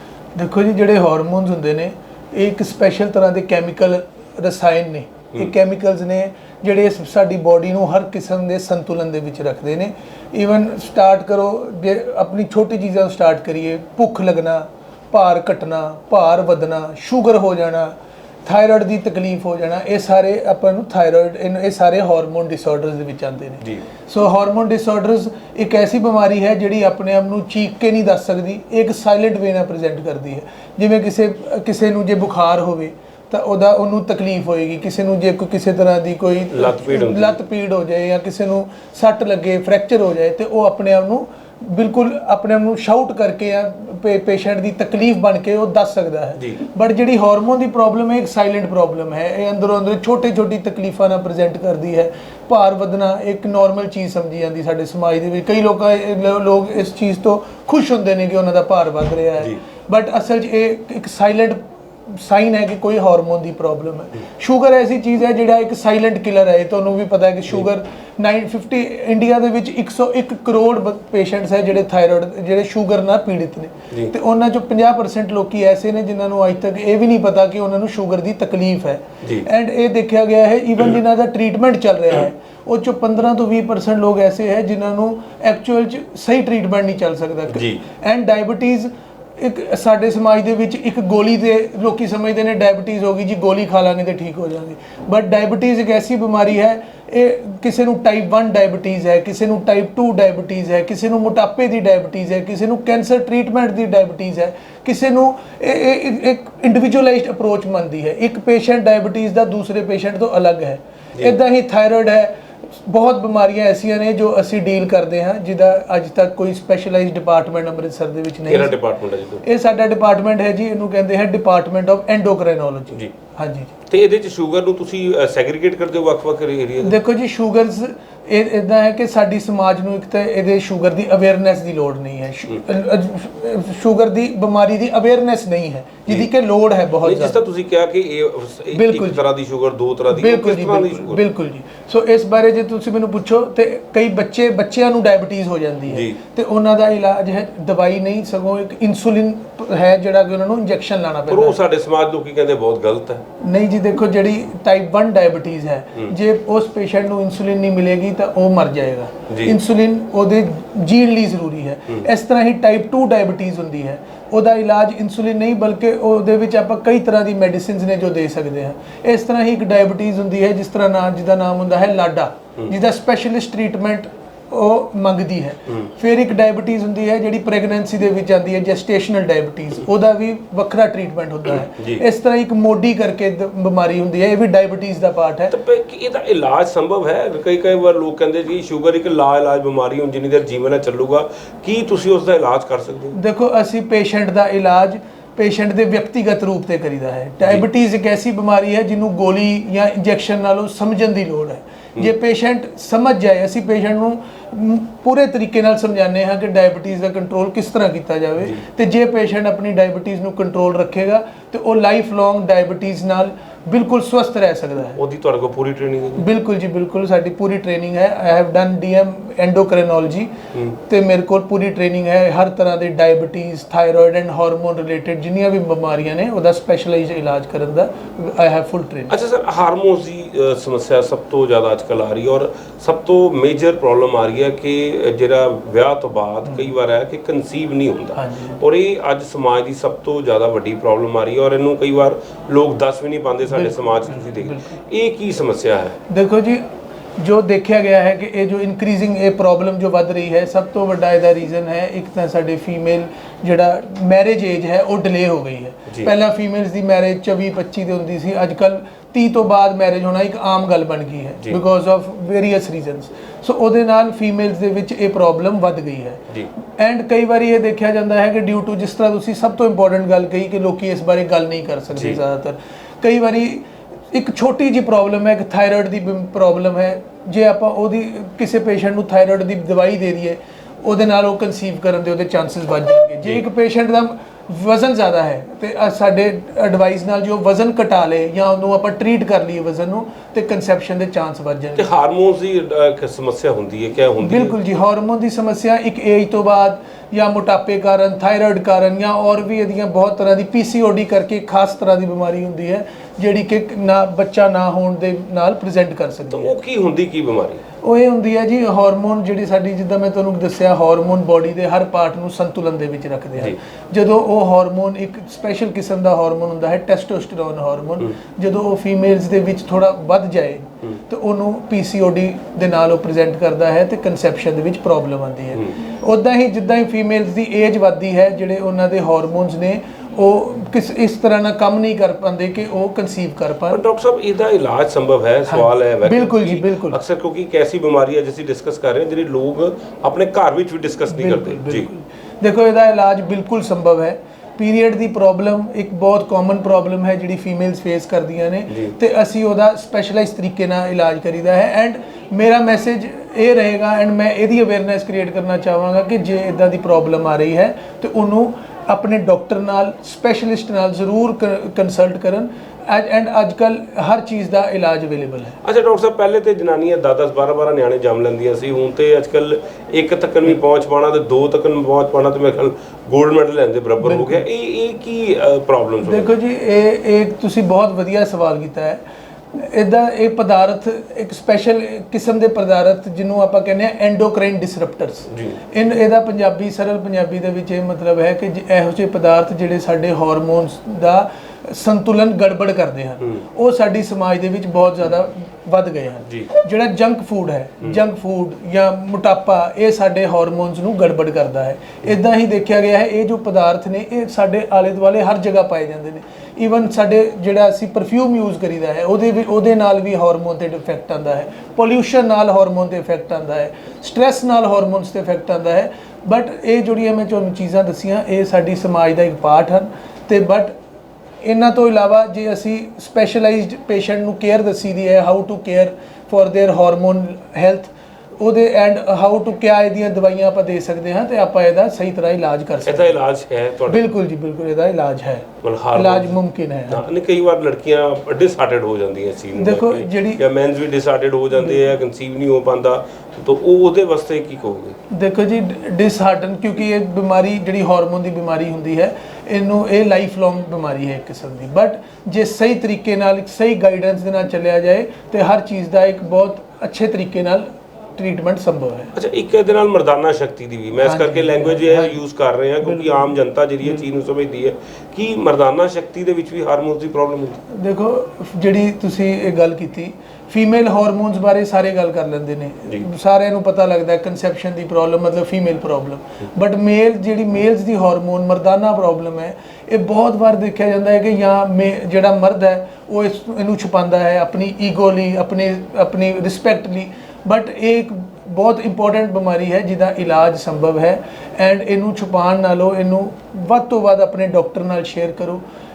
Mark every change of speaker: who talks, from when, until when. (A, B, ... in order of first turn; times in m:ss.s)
0:00.4-1:58.8 A
0:36.5-0:37.4 B
1:19.2-1:19.5 B
1:27.5-1:27.8 B
1:58.4-1:59.4 B
1:59.4-2:03.7 A
2:03.9-2:07.0 B
2:06.8-2:17.4 A
2:17.0-2:21.2 B
2:18.7-2:19.2 A
2:20.1-2:31.6 A
2:25.9-2:26.2 B
2:31.3-2:33.2 B
2:33.4-3:05.5 A
2:39.3-2:39.6 B
3:01.7-3:02.0 B
3:05.5-3:13.2 B
3:13.1-3:35.0 A
3:35.0-3:36.3 B
3:36.2-3:49.1 A
3:49.1-4:06.0 B
3:58.2-3:58.6 A
4:03.5-4:04.8 A
4:06.1-4:06.6 A
4:07.2-4:51.9 A
4:31.9-4:32.2 B
4:51.8-4:54.6 B
4:54.2-5:06.5 A
5:06.3-5:07.6 B
5:07.8-5:33.8 A
5:33.7-5:41.9 B
5:35.5-5:37.0 A
5:41.1-6:05.6 A
6:05.6-6:16.3 B
6:14.0-6:14.4 A
6:16.0-6:19.0 A
6:19.5-7:00.7 A
6:25.3-6:25.6 B
7:01.4-7:13.2 A
7:12.8-7:14.1 B
7:13.9-7:17.1 A
7:15.6-7:16.4 B
7:16.9-7:25.0 B
7:19.6-7:20.4 A
7:25.1-7:39.1 A
7:39.1-7:47.6 B
7:41.0-7:42.2 A
7:42.8-7:44.0 A
7:47.7-8:15.6 A